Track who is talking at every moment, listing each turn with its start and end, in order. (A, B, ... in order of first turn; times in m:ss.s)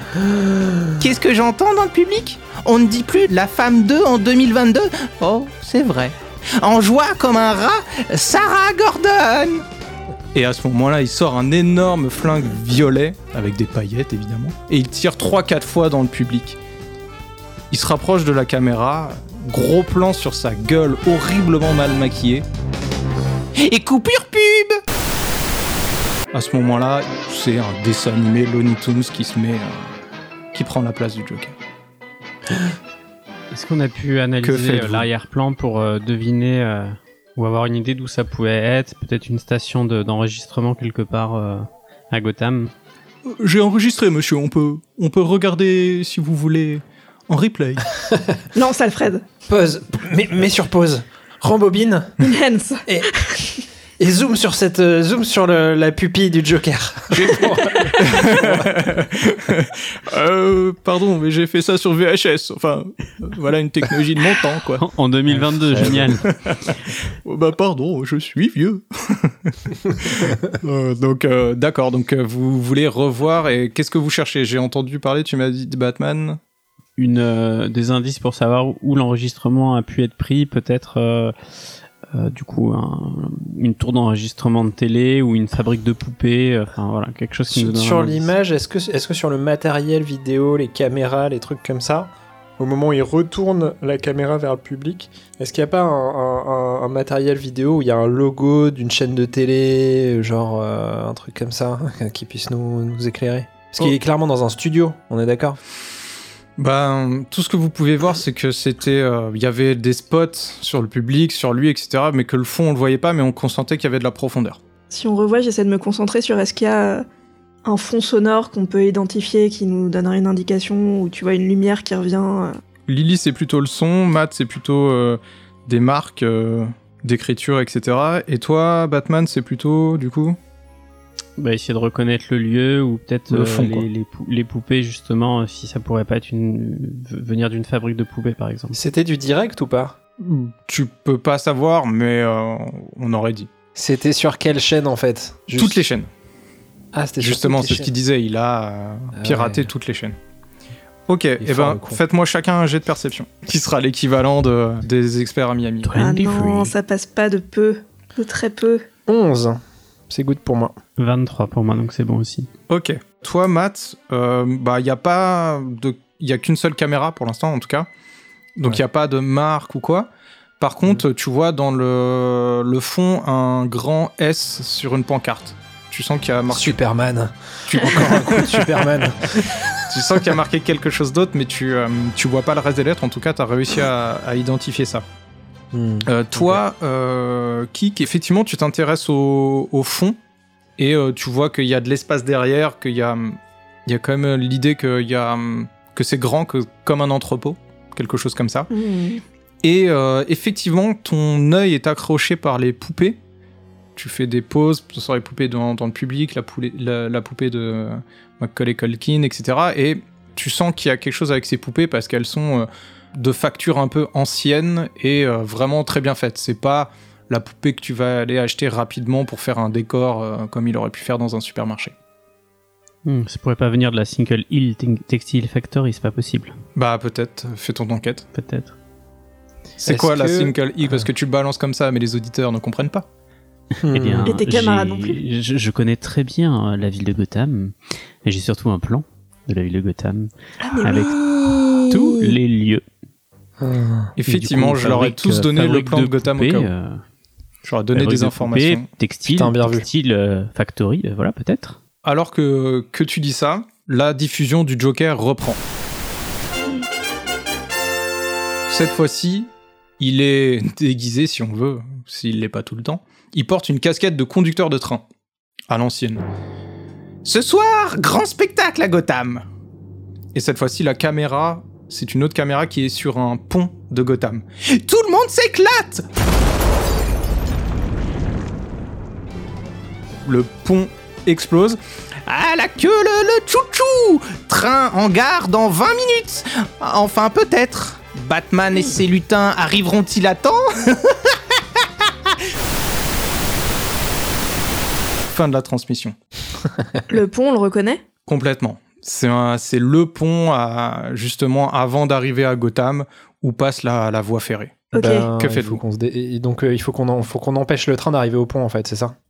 0:00.4-0:00.9 A
0:01.0-0:09.6 B
0:10.3-0:16.6 B
0:17.7-0:22.4 B
0:23.6-0:24.8 B
0:26.3-0:29.9 B
0:30.5-0:31.6 B
0:33.5-0:42.7 C
0:34.4-0:35.0 B
0:43.2-0:47.9 B
0:48.0-0:48.4 A
0:48.5-0:49.2 D
0:49.5-0:52.3 A
0:52.2-0:53.6 D
0:52.8-0:53.1 A
0:54.0-0:58.8 A
0:57.2-1:16.4 B
1:04.8-1:06.2 C
1:05.7-1:06.1 A
1:17.0-1:21.3 C
1:22.1-1:28.3 C
1:27.5-1:45.6 A
1:46.6-1:54.6 B
1:54.9-1:57.0 D
1:57.6-2:02.6 D
2:02.9-2:10.4 B
2:11.4-2:18.8 C
2:13.3-2:13.9 B
2:18.7-2:20.0 A
2:20.2-2:23.5 B
2:23.7-2:25.8 A
2:25.5-2:26.1 B
2:26.9-2:27.9 A
2:27.2-2:30.2 B
2:29.1-2:29.7 A
2:31.1-2:35.9 B
2:31.4-2:32.0 A
2:35.8-2:36.7 C
2:36.0-2:38.8 D
2:39.1-2:40.8 A
2:41.0-2:42.5 C
2:42.7-2:47.9 B
2:48.6-2:50.1 B
2:50.6-2:56.8 B
2:56.5-2:59.7 A
2:57.6-2:58.9 B
2:59.8-3:05.0 B
3:05.7-3:06.6 A
3:06.0-3:10.2 B
3:10.8-3:18.7 B
3:18.7-3:19.2 D
3:19.6-3:23.2 B
3:24.0-3:41.9 B
3:43.0-3:46.5 C
3:46.8-3:48.2 B
3:48.3-3:48.7 C
3:49.8-3:53.0 B
3:49.8-3:51.1 A
3:53.8-3:54.3 A
3:53.9-4:02.8 C
3:54.2-3:55.2 D
4:00.6-4:01.5 D
4:03.6-4:04.1 A
4:04.2-4:06.7 B
4:04.3-4:07.0 C
4:07.6-4:08.9 B
4:07.9-4:11.8 C
4:09.3-4:09.9 A
4:12.0-4:15.6 B
4:18.7-4:25.0 B
4:25.7-4:26.2 B
4:27.2-4:29.4 B
4:30.3-4:36.1 B
4:40.2-4:52.1 B
4:55.3-4:56.1 B
4:57.1-4:58.0 D
4:58.3-5:05.8 B
5:04.9-5:05.3 D
5:04.9-5:09.1 A